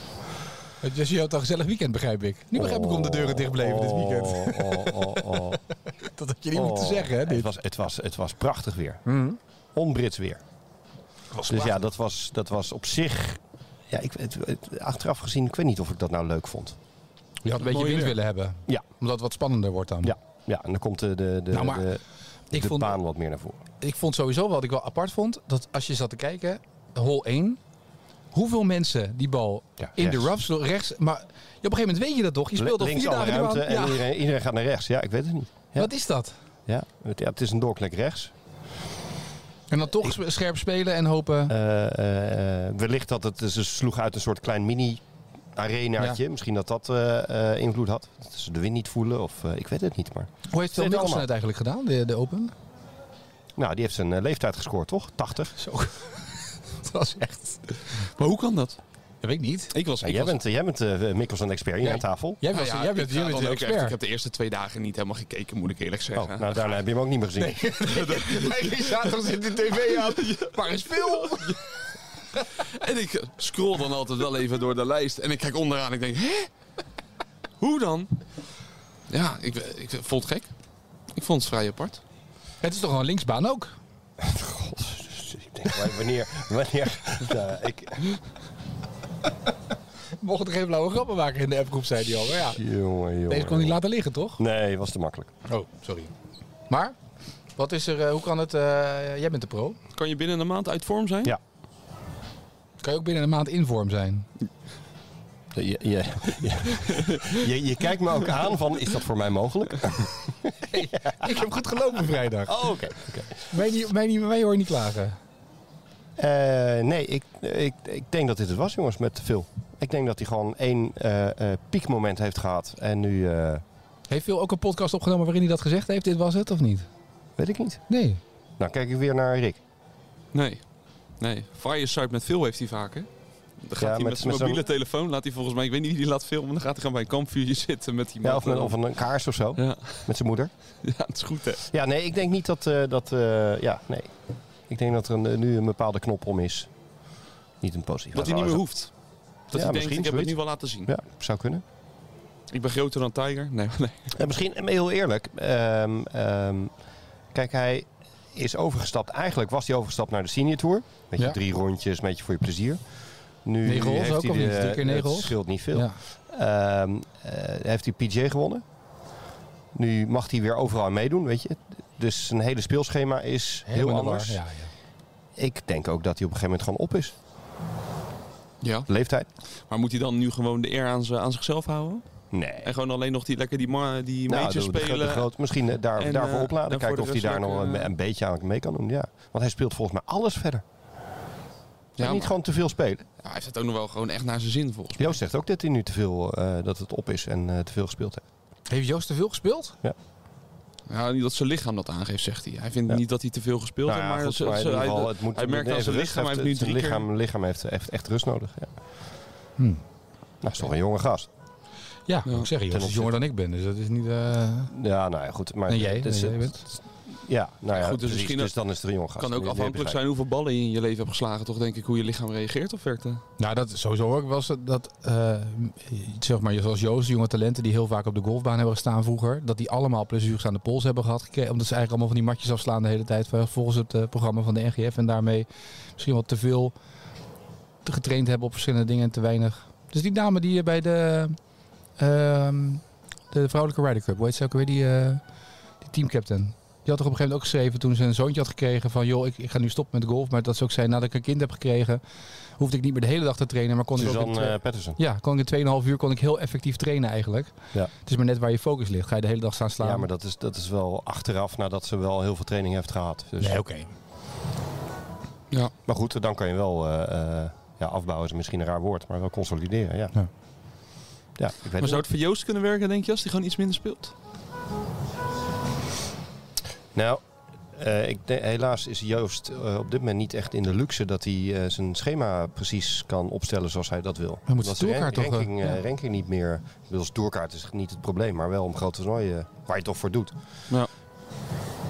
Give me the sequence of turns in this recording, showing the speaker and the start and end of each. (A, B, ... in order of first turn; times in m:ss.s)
0:00.8-0:05.4 A
0:02.5-0:05.6 B
0:06.0-0:07.5 A
0:06.5-0:09.0 B
0:09.1-0:09.4 A
0:09.8-0:10.4 B
0:11.4-0:11.8 A
0:11.5-0:16.8 B
0:17.4-0:20.1 A
0:17.6-0:18.2 C
0:20.0-0:23.6 B
0:21.5-0:21.9 A
0:22.5-0:23.0 A
0:23.8-0:27.6 A
0:28.3-0:34.0 A
0:29.8-0:30.3 B
0:32.6-0:35.9 B
0:35.8-0:36.4 A
0:36.7-0:38.3 B
0:39.7-0:41.5 A
0:41.5-0:45.0 B
0:45.6-0:51.3 B
0:50.5-0:52.5 A
0:53.6-0:55.6 B
0:55.6-0:57.6 A
0:58.0-0:58.8 C
0:59.2-0:59.7 A
0:59.7-1:00.4 C
1:00.0-1:02.4 B
1:01.8-1:04.0 A
1:02.5-1:06.7 C
1:06.2-1:07.6 B
1:07.4-1:11.6 A
1:07.8-1:11.6 C
1:12.5-1:16.5 C
1:17.6-1:18.2 C
1:19.1-1:20.5 C
1:21.1-1:22.0 C
1:22.6-1:23.8 A
1:24.2-1:28.2 B
1:30.2-1:32.6 A
1:32.3-1:33.8 B
1:33.3-1:34.4 A
1:34.4-1:35.3 B
1:35.5-1:36.1 A
1:36.7-1:37.0 A
1:37.6-1:39.8 A
1:39.9-1:41.4 C
1:42.8-1:44.3 A
1:45.5-1:51.4 B
1:50.7-1:52.7 A
1:52.5-1:53.5 B
1:53.5-1:55.2 A
1:56.2-2:03.6 B
2:04.1-2:06.9 A
2:07.4-2:07.8 B
2:07.9-2:08.2 A
2:08.6-2:09.6 B
2:10.3-2:10.6 C
2:11.2-2:13.1 C
2:13.6-2:18.8 C
2:13.8-2:14.6 B
2:18.2-2:20.5 B
2:19.6-2:20.1 C
2:20.8-2:21.6 C
2:21.7-2:24.2 B
2:24.7-2:26.7 B
2:27.6-2:28.6 B
2:28.1-2:28.9 C
2:29.5-2:30.9 C
2:29.5-2:31.6 B
2:32.5-2:34.2 C
2:34.2-2:36.7 B
2:37.3-2:42.8 B
2:43.4-2:48.6 B
2:43.6-2:46.0 A
2:49.8-2:54.4 B
2:53.7-2:54.7 A
2:55.4-2:57.2 B
2:58.6-2:58.9 C
2:58.9-2:59.3 B
2:59.7-3:02.0 C
3:02.3-3:02.7 B
3:02.6-3:05.3 C
3:04.3-3:10.6 B
3:06.0-3:07.9 C
3:12.0-3:12.4 C
3:12.0-3:13.0 B
3:13.2-3:15.2 C
3:15.0-3:18.2 B
3:18.7-3:19.8 A
3:20.9-3:27.1 C
3:23.8-3:28.7 B
3:29.6-3:29.8 A
3:30.4-3:31.3 B
3:32.1-3:34.7 A
3:32.7-3:33.1 B
3:34.7-3:40.0 B
3:35.7-3:36.6 A
3:37.7-3:38.6 C
3:39.2-3:43.2 C
3:43.4-3:56.7 A
3:57.8-4:01.4 A
4:02.0-4:05.2 A
4:05.8-4:12.0 A
4:12.6-4:20.1 A
4:14.0-4:15.0 B
4:19.8-4:23.6 B
4:23.4-4:23.9 A
4:25.9-4:30.1 B
4:31.4-4:32.1 B
4:31.8-4:34.1 C
4:37.0-4:50.3 B
4:44.5-4:45.8 A